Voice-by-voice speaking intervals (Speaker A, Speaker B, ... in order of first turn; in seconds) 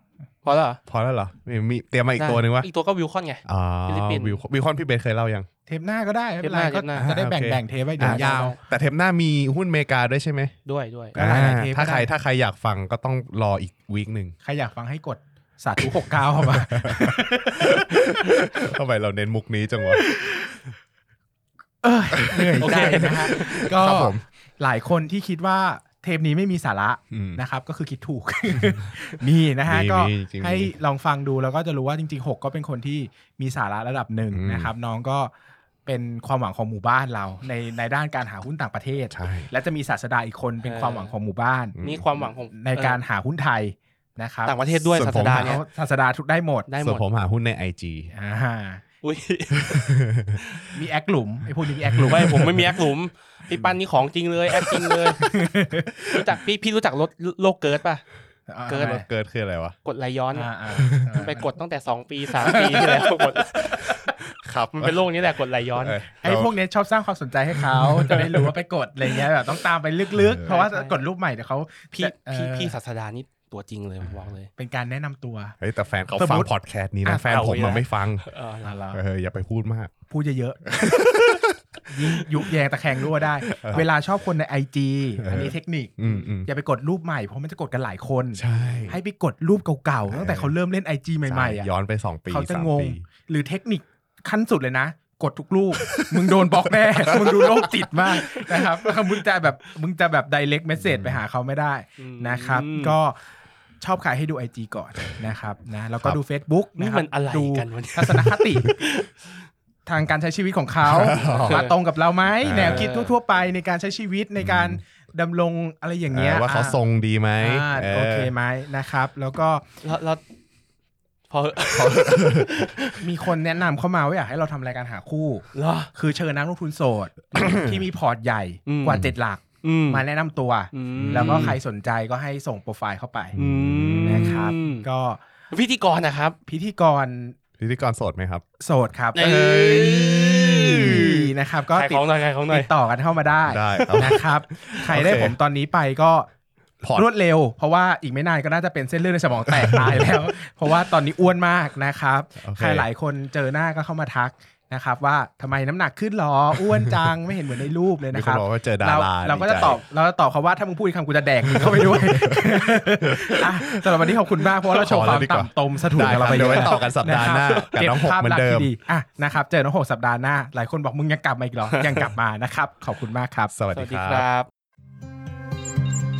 Speaker A: 0.4-0.8, 2.2-4.4, 6.4-7.1, 8.0-8.6, 10.7-11.2, 22.6-23.7, 40.6-41.1, 41.8-43.0, 44.5-45.6, 46.7-47.0, 49.0-50.7, 52.0-55.2, 56.1-58.0, 58.7-59.0, 59.9-60.5, 61.1-64.1, 64.7-66.0, 70.5-71.0, 72.0-74.5, 77.2-78.8, 102.0-103.0, 106.8-109.1, 111.2-111.8, 112.6-113.1, 119.8-120.2, 121.3-123.1, 125.5-125.9, 128.7-129.1, 129.6-130.0, 130.7-131.6, 133.4-134.9, 135.5-136.4, 139.2-142.7, 143.8-144.2, 166.2-166.8, 173.7-174.5
Speaker B: 0.9-2.7, 3.5-5.5, 7.0-10.6, 11.2-14.3, 15.8-20.1, 22.1-24.2, 27.1-27.4, 29.7-30.7, 34.3-34.7, 39.1-39.5, 41.8-42.1, 44.9-45.5, 46.8-48.1, 49.6-50.4, 51.9-52.6, 58.8-59.8, 60.8-61.3, 64.4-65.0, 65.8-66.5, 67.6-68.5, 70.1-70.5, 75.6-78.3, 78.9-79.9, 80.7-82.0, 83.2-83.9, 85.2-86.5, 88.4-89.0, 90.1-90.5, 91.3-93.0, 95.8-98.5, 100.8-101.2, 110.8-111.6, 112.4-112.9, 114.4-114.8, 116.1-118.3, 121.7-122.7, 131.0-131.6, 133.4-134.5, 137.6-138.4, 143.5-145.3, 146.8-147.1, 149.6-150.1, 152.4-152.9, 156.7-157.1, 158.1-159.8, 161.4-168.7, 173.5-174.2
Speaker C: 5.7-8.6, 11.2-12.1, 14.4-17.9, 20.0-20.6, 21.8-35.3, 35.9-44.5, 45.3-46.7, 48.1-48.8, 50.7-52.6, 55.2-56.1, 58.5-59.1, 60.3-61.5, 62.4-64.2, 66.2-72.8, 74.6-75.6, 76.2-76.5, 77.0-77.8, 78.6-79.0, 80.1-81.2, 81.9-91.7, 92.3-103.2, 103.8-108.7, 109.9-116.8, 117.4-119.7, 123.0-133.4, 134.0-135.2, 136.5-137.4, 138.6-146.3, 146.9-173.5